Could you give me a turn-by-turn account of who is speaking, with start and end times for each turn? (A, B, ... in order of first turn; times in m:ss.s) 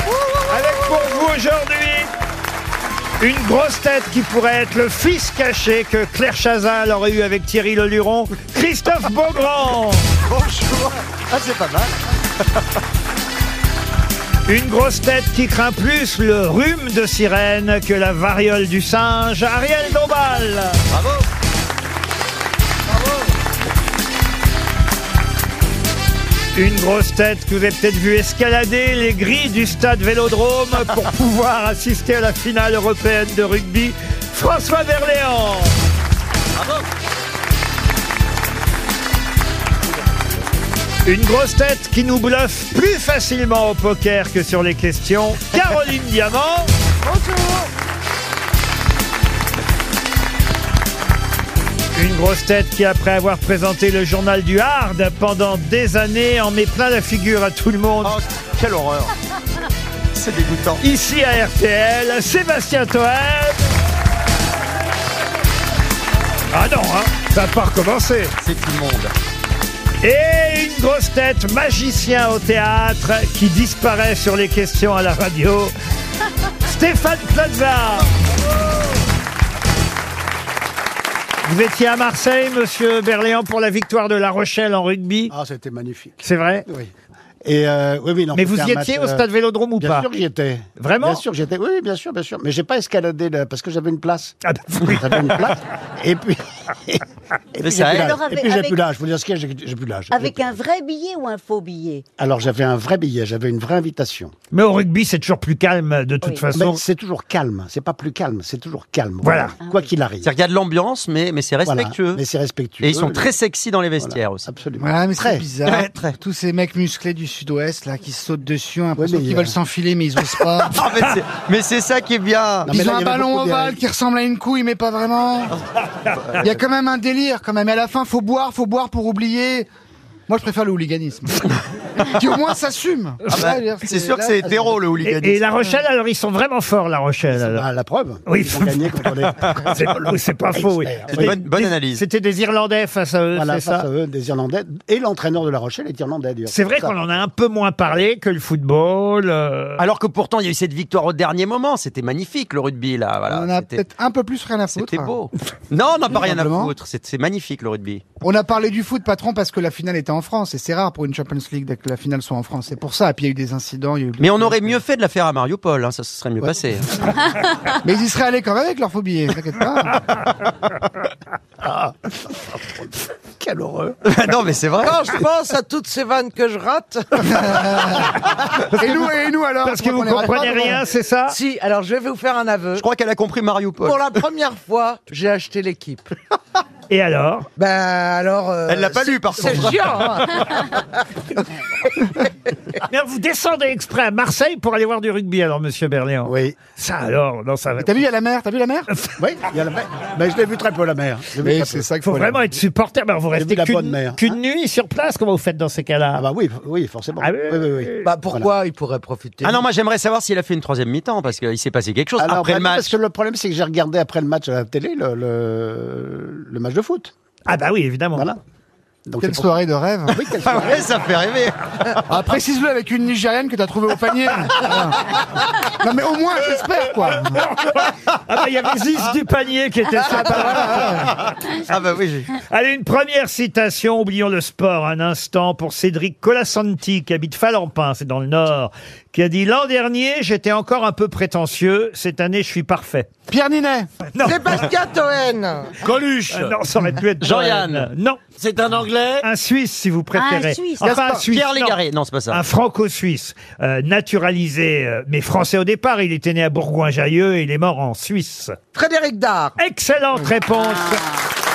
0:00.5-0:02.1 A
0:03.2-0:10.0 A
0:10.2-0:12.0 B
0:14.5-0:20.8 A
0:20.9-0:21.2 B
0:26.5-0:35.7 A
0:36.6-0:36.8 B
0:41.0-0:46.7 A
0:47.0-0:47.7 C
0:52.0-0:58.2 A
0:58.0-0:59.1 B
1:00.1-1:00.8 B
1:00.8-1:03.6 A
1:06.5-1:08.3 A
1:08.4-1:09.2 B
1:10.0-1:15.7 A
1:16.6-1:18.1 A
1:21.4-1:25.3 A
1:25.3-1:26.9 D
1:26.2-1:26.7 A
1:27.4-1:29.3 D
1:28.3-1:30.1 A
1:29.8-1:37.0 D
1:30.8-1:31.2 A
1:34.4-1:35.4 A
1:37.5-1:40.6 D
1:37.6-1:38.2 B
1:37.8-1:38.8 E
1:40.1-1:42.0 E
1:42.2-1:44.3 D
1:44.5-1:46.8 A
1:46.5-1:50.3 D
1:49.2-1:49.5 A
1:49.6-1:49.9 E
1:50.2-1:52.2 B
1:51.6-1:53.3 D
1:52.8-1:54.5 B
1:54.0-1:55.4 D
1:54.8-2:00.8 F
1:55.6-1:56.1 B
1:59.0-1:59.5 D
2:00.7-2:02.7 B
2:02.7-2:03.8 D
2:02.7-2:05.5 F
2:06.4-2:09.7 F
2:10.3-2:14.8 F
2:13.3-2:15.4 B
2:15.0-2:17.6 A
2:17.3-2:21.4 D
2:18.3-2:23.9 A
2:21.2-2:22.0 B
2:23.3-2:26.9 D
2:26.5-2:29.8 A
2:29.8-2:33.8 B
2:33.3-2:35.2 F
2:34.7-2:38.0 B
2:36.2-2:36.7 F
2:38.2-2:44.8 F
2:44.2-2:47.2 B
2:47.8-2:50.0 F
2:51.6-2:54.0 D
2:54.1-2:55.0 B
2:54.8-2:58.2 C
2:57.2-2:58.1 F
2:58.7-3:01.4 A
2:58.7-3:00.8 F
3:01.3-3:02.8 C
3:02.8-3:04.2 B
3:03.8-3:06.1 C
3:06.9-3:07.5 A
3:07.6-3:10.9 C
3:08.7-3:10.6 B
3:12.8-3:18.0 A
3:16.2-3:16.6 D
3:17.8-3:18.9 F
3:19.2-3:21.9 D
3:21.4-3:22.6 F
3:22.0-3:26.3 A
3:23.3-3:24.4 D
3:26.1-3:28.5 D
3:27.2-3:28.1 A
3:28.0-3:29.6 C
3:29.4-3:32.9 B
3:32.2-3:37.1 D
3:37.5-3:38.3 A
3:39.1-3:39.5 D
3:39.2-3:40.2 F
3:40.1-3:40.9 D
3:40.2-3:42.1 B
3:42.1-3:47.5 F
3:47.6-3:51.1 A
3:50.0-3:51.1 F
3:50.6-3:52.3 B
3:52.3-4:03.1 A
4:03.3-4:03.9 F
4:04.1-4:04.6 A
4:04.2-4:05.9 C
4:05.8-4:06.5 B
4:06.3-4:08.2 A
4:07.2-4:07.9 B
4:08.4-4:08.8 B
4:08.4-4:09.2 C
4:09.2-4:11.8 A
4:10.2-4:11.0 E
4:10.8-4:12.4 B
4:12.3-4:18.6 A
4:18.7-4:19.6 C
4:19.6-4:21.1 A
4:20.6-4:21.2 E